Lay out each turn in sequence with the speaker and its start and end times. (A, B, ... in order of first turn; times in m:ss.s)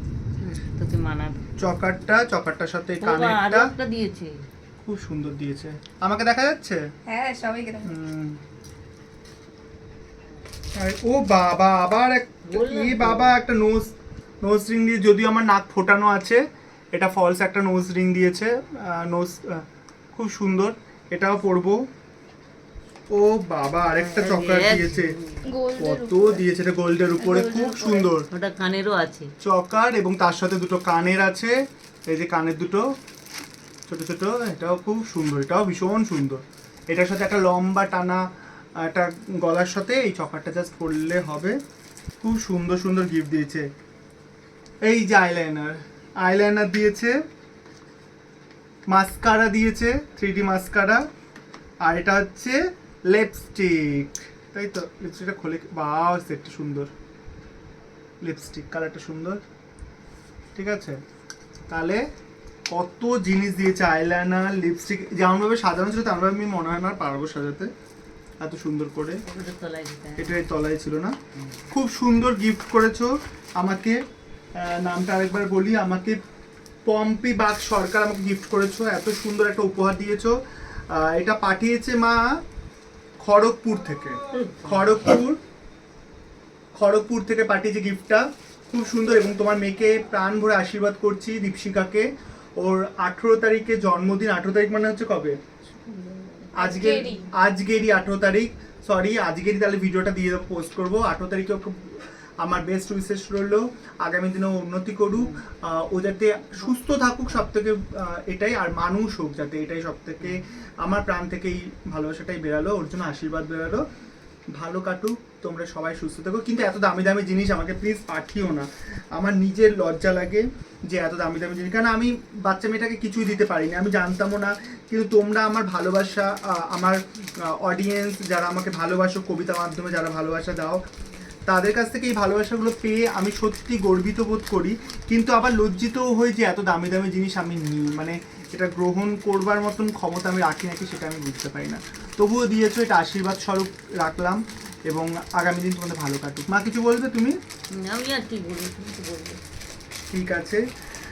0:00.4-0:01.4 A
0:01.6-0:03.7 B
0:03.0-0:04.4 A
0:04.8-0:06.8 B
0:07.1-0:07.9 C
0:07.8-0:08.4 B
0:10.8-0:13.9 B
0:12.5-0:13.4 A
0:14.4-0:21.8 B
0:23.1-0:25.1 B
0:23.8-0:25.5 A
0:25.4-0:26.5 C
0:25.8-0:28.3 B
0:27.2-0:28.1 C
0:28.3-0:29.3 A
0:29.4-0:31.5 B
0:32.1-0:32.9 B
0:33.9-0:38.2 B
0:38.8-0:41.6 B
0:42.2-0:43.6 B
0:44.8-0:47.2 B
0:48.9-0:51.0 B
0:51.8-0:52.6 B
0:53.1-0:56.9 B
0:58.2-0:59.4 B
1:00.6-1:01.0 B
1:01.7-1:02.0 B
1:02.7-1:07.7 B
1:08.4-1:09.2 B
1:09.3-1:10.4 A
1:10.2-1:11.2 B
1:11.7-1:14.0 B
1:14.6-1:16.2 B
1:16.9-1:20.4 B
1:20.9-1:22.2 B
1:23.2-1:25.4 B
1:24.3-1:25.2 A
1:26.8-1:32.1 B
1:32.6-1:35.4 B
1:35.9-1:37.3 C
1:36.5-1:53.8 B
1:54.6-2:10.8 B
2:11.5-2:27.4 B
2:27.7-2:29.4 A
2:30.1-2:30.6 B